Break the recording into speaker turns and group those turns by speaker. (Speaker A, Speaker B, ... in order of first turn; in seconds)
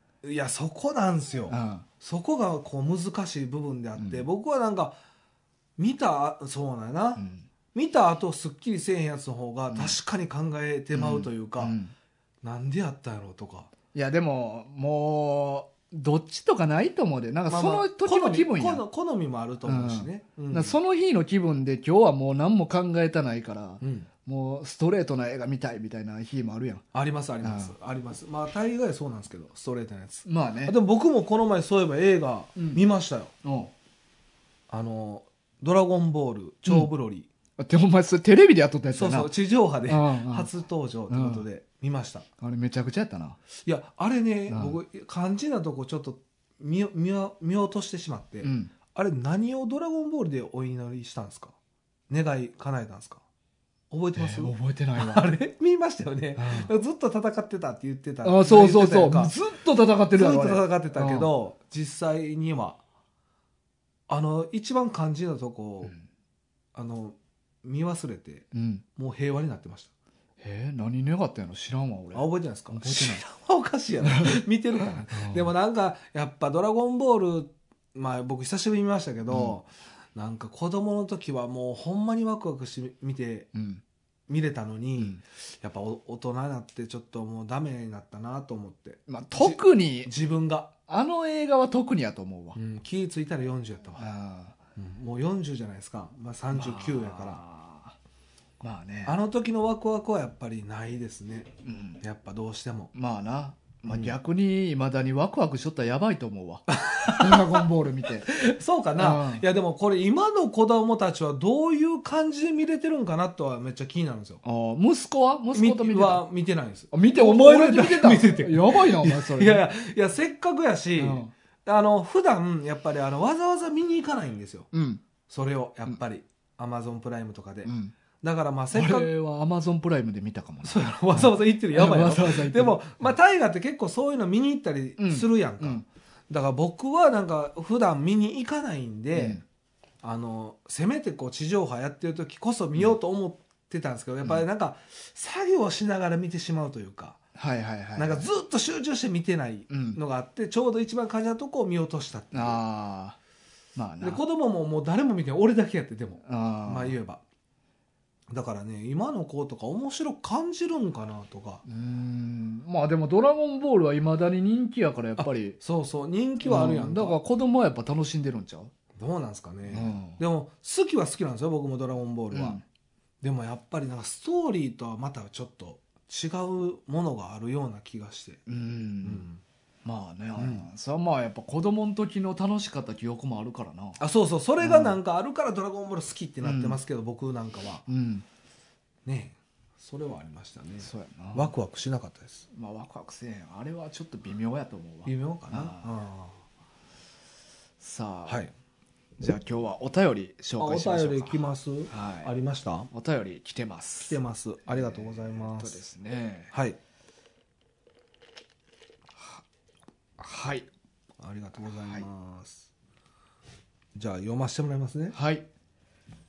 Speaker A: 0.2-5.0, 5.8-11.8, 12.4-13.7, 17.5-20.8, 23.8-24.1, 26.9-33.3, 34.7-37.3, 38.9-42.2, 43.6-51.5, 52.1-53.2, 53.9-59.3, 60.1-62.8, 64.1-65.9, 66.7-69.9, 72.1-83.5, 84.3-90.7, 92.5-94.0, 94.8-97.4, 99.0-102.9, 103.9-104.1, 106.7-107.7, 108.2-114.4, 115.5-124.7, 125.3-129.1, 130.6-139.4, 140.0-147.2, 147.9-152.6, 154.0-157.2, 158.3-161.6, 165.2-167.2, 169.0-172.6, 173.2-178.4, 179.0-179.4, 180.4-180.6, 184.0-187.8, 189.0-192.4, 195.0-196.4, 200.6-202.9, 204.1-205.8, 206.5-206.8, 211.2-212.7, 213.9-215.2
Speaker B: 1.5-1.9, 4.0-4.2, 7.2-7.4, 9.7-9.9, 10.9-11.9, 13.9-18.8, 19.6-26.8, 27.4-27.7, 30.2-30.7, 32.5-32.8, 33.4-33.7, 37.6-39.3, 39.9-40.5, 41.1-41.4, 42.4-43.4, 44.5-44.8, 48.4-48.7, 54.1-55.3, 56.4-56.7, 58.2-61.3, 68.5-68.8, 70.4-73.2, 74.0-74.4, 75.1-75.5, 83.5-83.8, 89.1-90.1, 90.9-92.6, 94.0-94.5, 96.5-98.0, 98.6-99.2, 101.6-102.0, 102.9-108.3, 109.0-109.4, 114.4-116.2, 116.9-119.6, 121.0-121.3, 124.7-125.0, 127.7-127.9, 128.7-133.0, 135.0-135.8, 139.1-139.4, 147.3-148.3, 149.7-150.0, 152.3-153.2, 153.7-154.2, 156.2-157.0, 161.7-165.6, 166.4-168.7, 169.7-170.2, 172.3-172.6, 178.5-179.2, 179.8-184.0, 184.6-185.0, 186.4-186.8, 187.9-188.2, 190.8-191.5, 192.5-195.9, 197.8-198.5, 199.2-201.4, 201.9-202.3, 202.9-206.5, 209.2-209.4, 210.2-210.7, 211.7-212.0, 215.1-215.5